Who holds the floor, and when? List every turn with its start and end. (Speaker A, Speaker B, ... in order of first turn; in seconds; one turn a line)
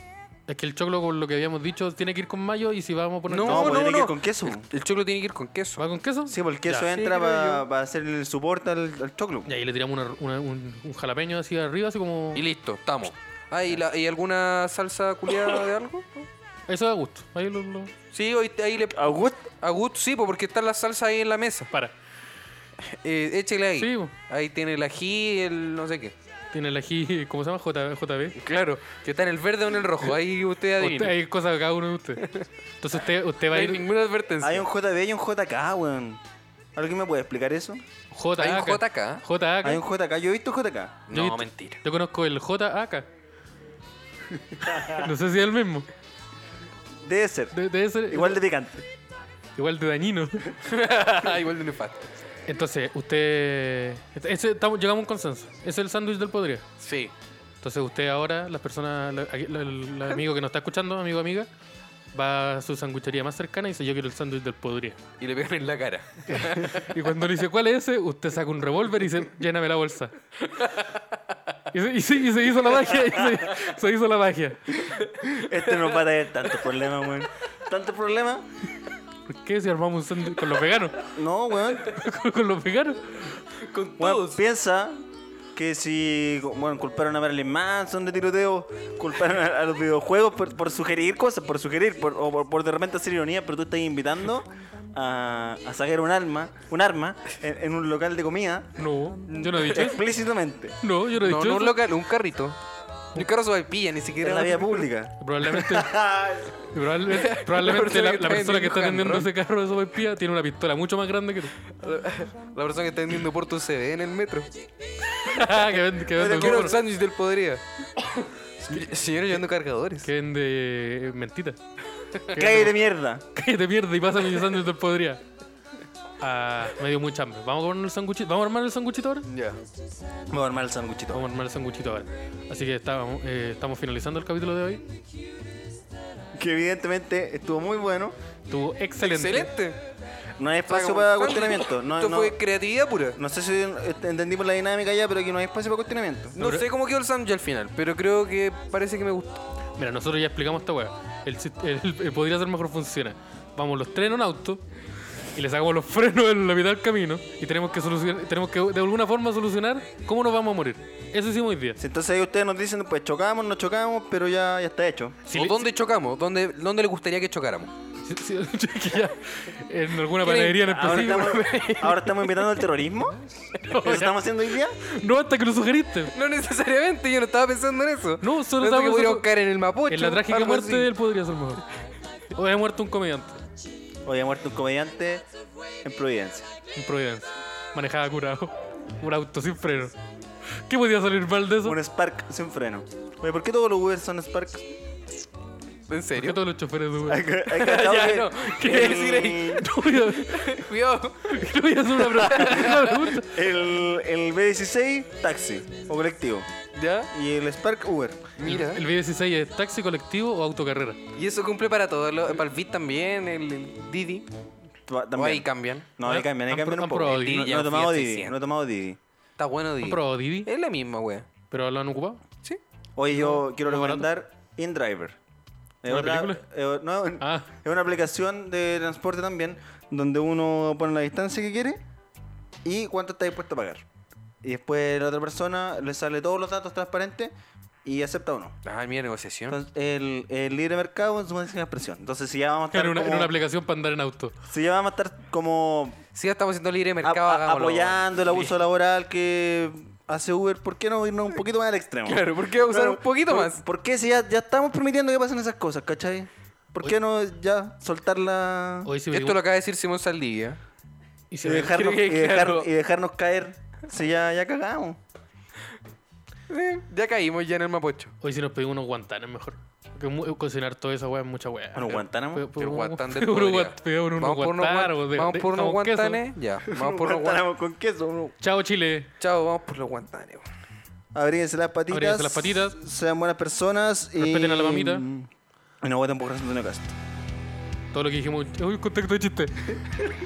Speaker A: 0.5-3.9
Speaker B: 3.3-5.8
Speaker C: 3.4-4.7
Speaker A: 5.8-6.9
Speaker C: 6.3-9.5
Speaker B: 6.8-7.7
Speaker A: 9.5-12.4
Speaker B: 12.3-16.3
Speaker A: 16.7-17.9
Speaker B: 18.1-21.7
Speaker C: 18.9-19.5
Speaker B: 22.8-26.1
Speaker A: 23.8-24.1
Speaker A: 26.5-28.4
Speaker B: 28.4-31.2
Speaker A: 30.8-33.9
Speaker B: 33.5-34.7
Speaker C: 34.4-36.2
Speaker C: 36.8-37.8
Speaker A: 38.1-39.8
Speaker B: 38.4-39.2
Speaker C: 39.6-41.0
Speaker B: 41.1-41.8
Speaker A: 41.1-43.1
Speaker C: 44.6-44.9
Speaker A: 44.6-45.9
Speaker C: 47.0-47.5
Speaker A: 47.5-48.4
Speaker C: 48.1-48.8
Speaker A: 49.6-50.5
Speaker B: 50.6-52.1
Speaker A: 52.5-56.6
Speaker B: 56.8-57.1
Speaker A: 57.6-61.5
Speaker A: 62.1-65.0
Speaker B: 65.2-67.0
Speaker A: 66.3-70.1
Speaker B: 70.5-71.2
Speaker A: 71.7-74.8
Speaker B: 74.9-76.0
Speaker C: 75.2-78.5
Speaker A: 79.3-81.1
Speaker C: 81.1-81.9
Speaker A: 81.8-83.4
Speaker B: 83.5-84.4
Speaker C: 84.0-85.0
Speaker C: 85.5-98.7
Speaker A: 98.8-100.0
Speaker C: 99.3-100.8
Speaker A: 100.8-101.8
Speaker B: 101.2-102.6
Speaker B: 103.2-104.8
Speaker C: 104.2-106.6
Speaker A: 105.2-106.0
Speaker A: 106.7-111.5
Speaker B: 107.1-109.3
Speaker B: 111.7-114.5
Speaker A: 115.2-116.8
Speaker B: 115.2-118.1
Speaker C: 116.2-116.8
Speaker B: 118.6-120.1
Speaker A: 120.0-121.6
Speaker A: 122.3-122.8
Speaker C: 122.3-123.2
Speaker A: 123.3-125.2
Speaker A: 126.2-129.3
Speaker B: 129.3-129.6
Speaker C: 130.3-131.3
Speaker A: 131.1-134.9
Speaker C: 136.3-138.2
Speaker A: 138.5-139.5
Speaker B: 139.0-139.8
Speaker C: 140.4-142.4
Speaker B: 140.7-143.2
Speaker C: 143.2-146.4
Speaker B: 146.4-149.4
Speaker A: 146.4-146.7
Speaker A: 149.8-154.6
Speaker A: 155.3-161.8
Speaker C: 161.8-165.2
Speaker A: 165.3-165.7
Speaker B: 165.3-167.7
Speaker A: 168.0-171.4
Speaker B: 170.2-172.6
Speaker C: 170.7-174.7
Speaker A: 173.6-174.2
Speaker A: 174.8-176.1
Speaker B: 176.1-180.9
Speaker A: 178.2-179.3
Speaker A: 179.9-181.6
Speaker A: 182.3-183.4
Speaker C: 184.1-185.2
Speaker C: 185.8-186.5
Speaker A: 186.8-189.9
Speaker A: 190.6-191.8
Speaker C: 191.6-194.7
Speaker B: 195.9-196.4
Speaker A: 196.2-197.3
Speaker C: 197.1-199.7
Speaker B: 197.5-203.1
Speaker A: 199.5-200.7
Speaker A: 201.2-203.4
Speaker C: 203.2-206.5
Speaker B: 206.8-207.1
Speaker C: 207.1-208.2
Speaker B: 208.4-208.8
Speaker A: 208.4-211.0
Speaker B: 211.2-214.3
Speaker C: 214.9-219.0
Speaker B: 215.2-215.9
Speaker A: 216.0-217.5
Speaker B: 217.1-218.4
Speaker B: 219.4-221.3
Speaker A: 219.8-220.5
Speaker A: 221.5-222.2
Speaker C: 223.0-225.2
Speaker A: 223.1-224.1
Speaker C: 225.8-231.8
Speaker A: 225.9-226.4
Speaker A: 227.2-227.5
Speaker C: 232.6-233.8
Speaker C: 234.4-237.3
Speaker C: 237.8-238.6
Speaker B: 238.6-239.6
Speaker C: 239.5-243.3
Speaker A: 242.7-244.4
Speaker C: 244.5-246.0
Speaker B: 246.1-248.5
Speaker C: 247.0-258.9
Speaker B: 252.1-253.6
Speaker A: 258.9-259.4
Speaker B: 259.1-260.6
Speaker A: 261.3-261.8
Speaker C: 261.4-265.0
Speaker B: 261.5-262.7
Speaker B: 266.5-268.1
Speaker A: 268.2-276.2
Speaker C: 271.7-272.5
Speaker B: 272.6-277.4
Speaker C: 276.7-278.4
Speaker A: 278.4-279.1
Speaker B: 279.2-280.5
Speaker C: 281.1-285.3
Speaker A: 281.9-282.8
Speaker A: 284.2-285.1
Speaker C: 285.8-287.0
Speaker A: 287.9-289.8